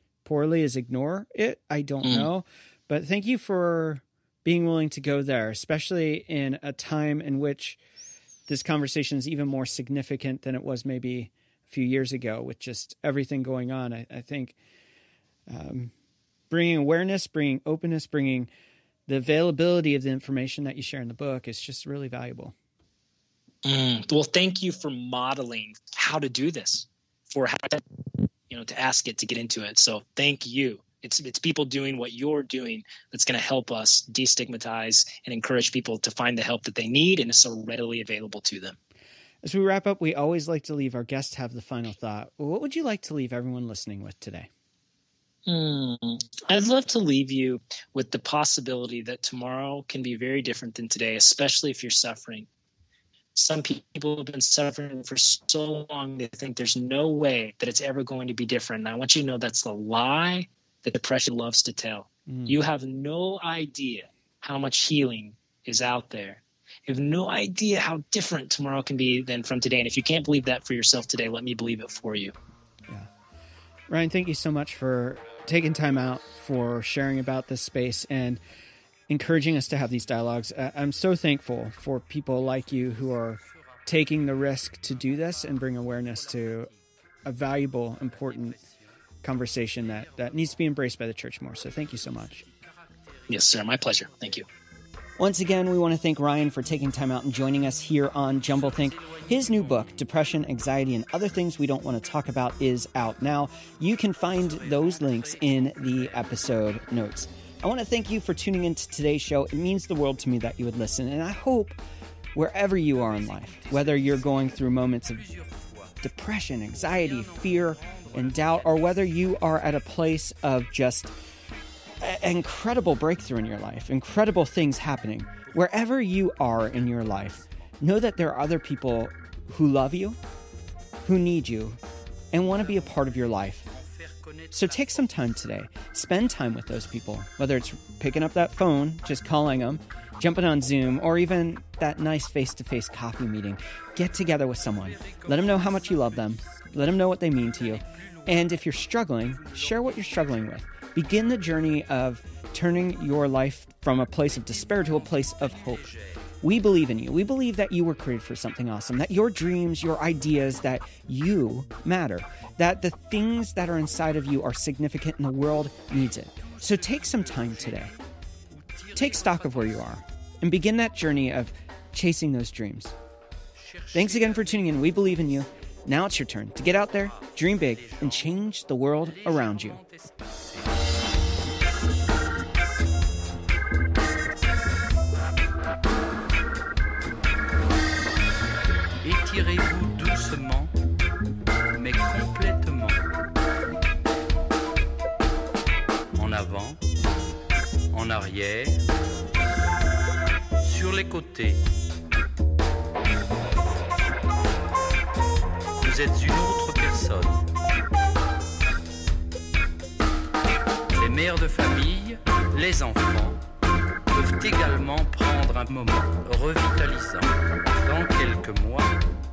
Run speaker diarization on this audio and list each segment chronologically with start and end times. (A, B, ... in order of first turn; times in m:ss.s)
0:00.2-0:07.8 A
0:02.0-0:02.3 B
0:08.5-0:14.6 A
0:15.5-0:15.9 A
0:16.5-0:18.5 A
0:19.1-0:22.6 A
0:23.6-0:27.8 B
0:28.5-0:38.8 B
0:39.4-0:44.5 A
0:45.4-0:52.5 B
0:53.4-1:12.3 B
1:02.3-1:02.6 A
1:13.9-1:18.4 A
1:19.1-1:26.7 A
1:22.7-1:26.9 C
1:27.2-1:28.6 A
1:27.9-1:28.9 C
1:29.2-1:32.4 A
1:29.7-1:30.9 C
1:31.6-1:34.5 C
1:33.3-1:34.5 B
1:35.2-1:51.8 A
1:38.4-1:40.1 C
1:44.3-1:47.1 C
1:52.4-1:55.2 A
1:52.8-1:56.0 C
1:56.0-2:01.1 A
1:56.8-1:59.8 C
2:02.0-2:10.2 A
2:05.4-2:07.7 C
2:11.0-2:11.8 A
2:12.3-2:13.6 A
2:12.5-2:15.1 C
2:14.5-2:35.8 A
2:24.6-2:26.7 C
2:27.6-2:30.9 C
2:34.3-2:36.3 C
2:36.4-2:47.9 A
2:45.9-2:48.0 C
2:48.5-2:50.0 C
2:48.9-2:52.9 A
2:53.5-2:55.4 C
2:53.9-2:59.8 A
2:56.7-3:00.8 C
3:09.0-3:10.7 C
3:11.7-3:13.1 C
3:16.1-3:16.8 C
3:17.9-3:18.8 C
3:20.6-3:21.6 C
3:25.8-3:27.4 C
3:30.9-3:33.4 C
3:34.1-3:38.9 C